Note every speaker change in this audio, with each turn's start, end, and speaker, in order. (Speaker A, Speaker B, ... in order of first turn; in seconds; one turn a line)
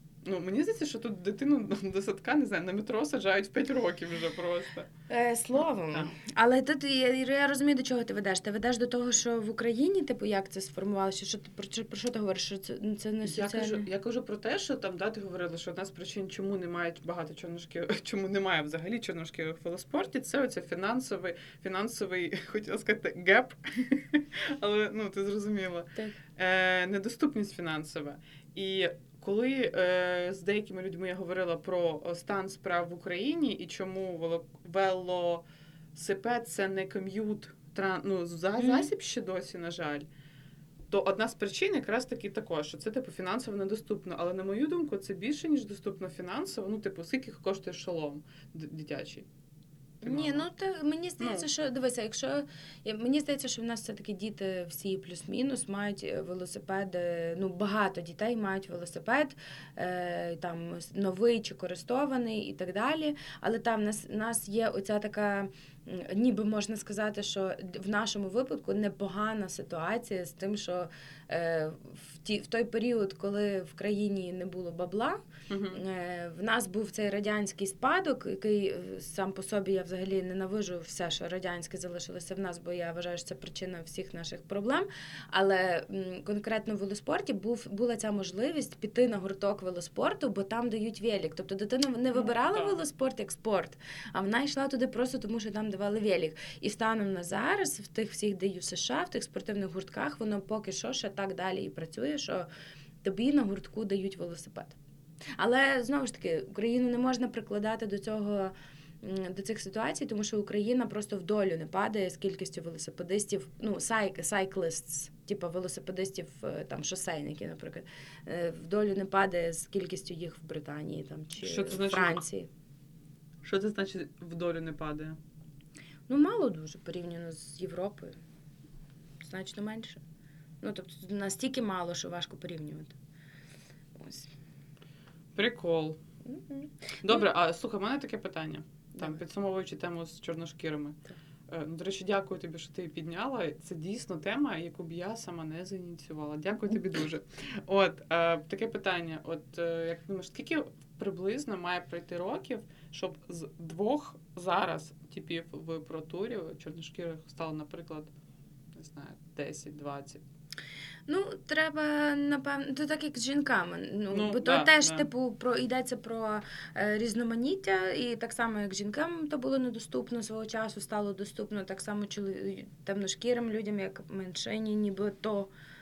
Speaker A: 0.2-4.9
Speaker B: 5.1-13.9
Speaker A: 13.2-35.4
Speaker A: 36.0-40.1
Speaker A: 40.9-49.3
Speaker B: 50.0-75.2
Speaker A: 50.0-50.5
Speaker A: 51.2-51.5
Speaker A: 75.5-75.8
Speaker B: 75.7-102.5
Speaker A: 92.1-92.8
Speaker B: 103.0-104.8
Speaker B: 105.4-122.5
Speaker A: 121.4-122.2
Speaker A: 123.4-125.2
Speaker B: 126.1-128.2
Speaker B: 129.2-130.0
Speaker B: 130.6-132.9
Speaker B: 133.9-134.3
Speaker A: 135.3-136.0
Speaker B: 136.2-137.2
Speaker A: 137.0-158.1
Speaker A: 158.7-160.2
Speaker B: 161.1-175.5
Speaker A: 164.1-165.1